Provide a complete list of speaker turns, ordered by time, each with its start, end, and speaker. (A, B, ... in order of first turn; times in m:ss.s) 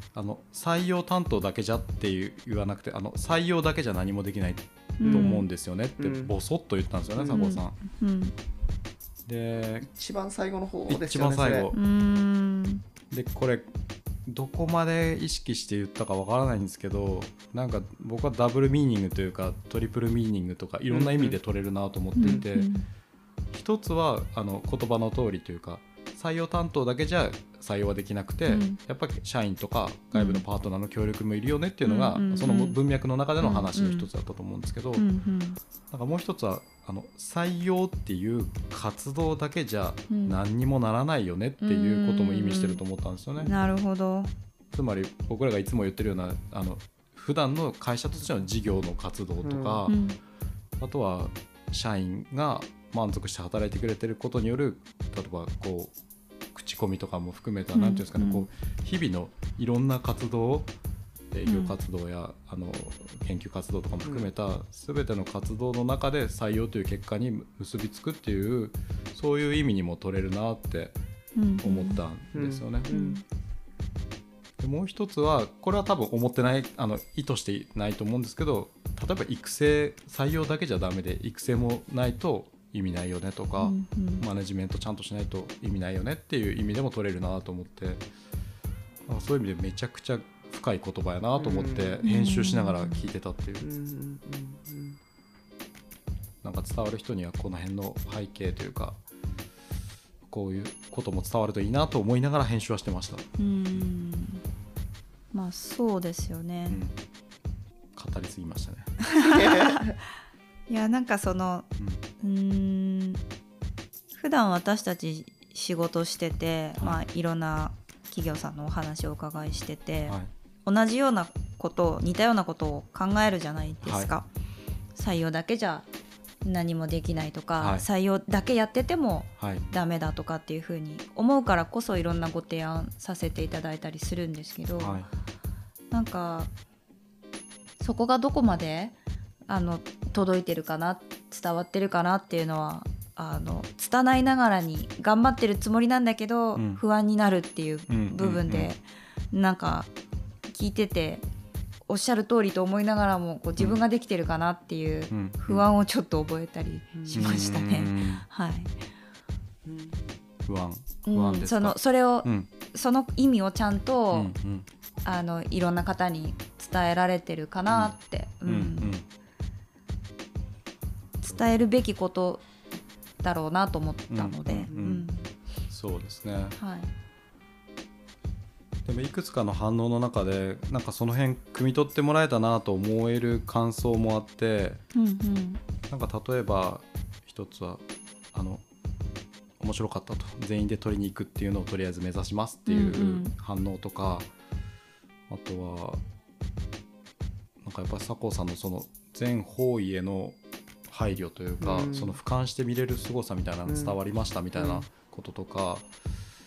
0:00.1-0:07.8 A
0:05.0-0:05.4 B
0:05.0-0:05.4 C
0:06.0-0:06.3 C
0:07.2-0:07.5 C
0:07.3-0:08.3 B
0:09.2-0:09.9 A
0:09.8-0:11.7 C
0:10.9-0:11.8 A
0:11.7-0:12.8 B
0:13.1-0:13.7 A
0:14.2-0:22.7 A
0:20.9-0:21.4 C
0:22.2-0:22.8 B
0:23.5-0:35.0 A
0:28.5-0:28.8 B
0:30.1-0:30.4 B
0:31.8-0:32.8 B
0:33.4-0:34.1 B
0:35.0-0:35.6 B
0:35.9-0:43.5 A
0:40.1-0:40.4 B
0:41.6-0:42.8 B
0:43.4-0:44.3 B
0:44.7-0:50.0 A
0:49.4-0:49.9 C
0:49.8-0:50.2 B
0:50.8-0:55.9 A
0:56.5-1:00.7 A
0:57.7-0:58.5 B
1:01.3-1:11.0 A
1:01.4-1:01.8 B
1:04.0-1:04.3 C
1:11.4-1:12.0 B
1:11.6-1:12.9 A
1:12.3-1:13.2 C
1:12.9-1:13.2 B
1:14.6-1:28.0 A
1:23.6-1:24.2 B
1:29.0-1:33.6 A
1:31.3-1:32.0 C
1:32.0-1:33.0 B
1:33.6-1:35.0 C
1:36.4-1:39.0 A
1:40.3-1:43.9 A
1:43.4-1:44.4 B
1:45.3-1:46.8 B
1:46.7-1:47.0 A
1:47.9-1:48.9 A
1:49.0-1:49.9 B
1:49.2-1:50.0 C
1:50.7-1:51.7 B
1:52.2-1:53.2 B
1:54.1-2:04.3 B
1:56.8-1:57.0 A
2:03.8-2:04.1 A
2:04.9-2:05.9 B
2:06.4-2:15.0 B
2:07.6-2:07.8 A
2:09.4-2:09.6 A
2:14.8-2:15.1 A
2:15.9-2:16.5 B
2:17.8-2:19.0 B
2:19.5-2:29.9 B
2:26.6-2:26.8 A
2:27.9-2:28.7 A
2:30.5-2:31.2 B
2:31.9-2:38.7 B
2:35.1-2:35.7 A
2:36.9-2:37.3 C
2:37.1-2:38.2 A
2:39.6-2:40.1 C
2:40.4-2:42.5 A
2:41.0-2:44.3 B
2:44.1-2:44.7 A
2:45.0-2:48.9 B
2:47.7-2:49.0 A
2:51.2-2:52.4 B
2:53.2-2:55.3 B
2:54.1-2:55.1 A
2:54.7-2:54.9 C
2:55.7-2:56.6 A
2:56.6-2:56.9 B
2:58.8-3:04.8 A
3:04.9-3:05.6 B
3:05.9-3:08.6 A
3:09.6-3:14.3 A
3:12.6-3:13.3 B
3:15.3-3:16.0 A
3:17.6-3:25.9 A
3:21.6-3:22.2 C
3:23.6-3:24.0 C
3:24.5-3:24.8 C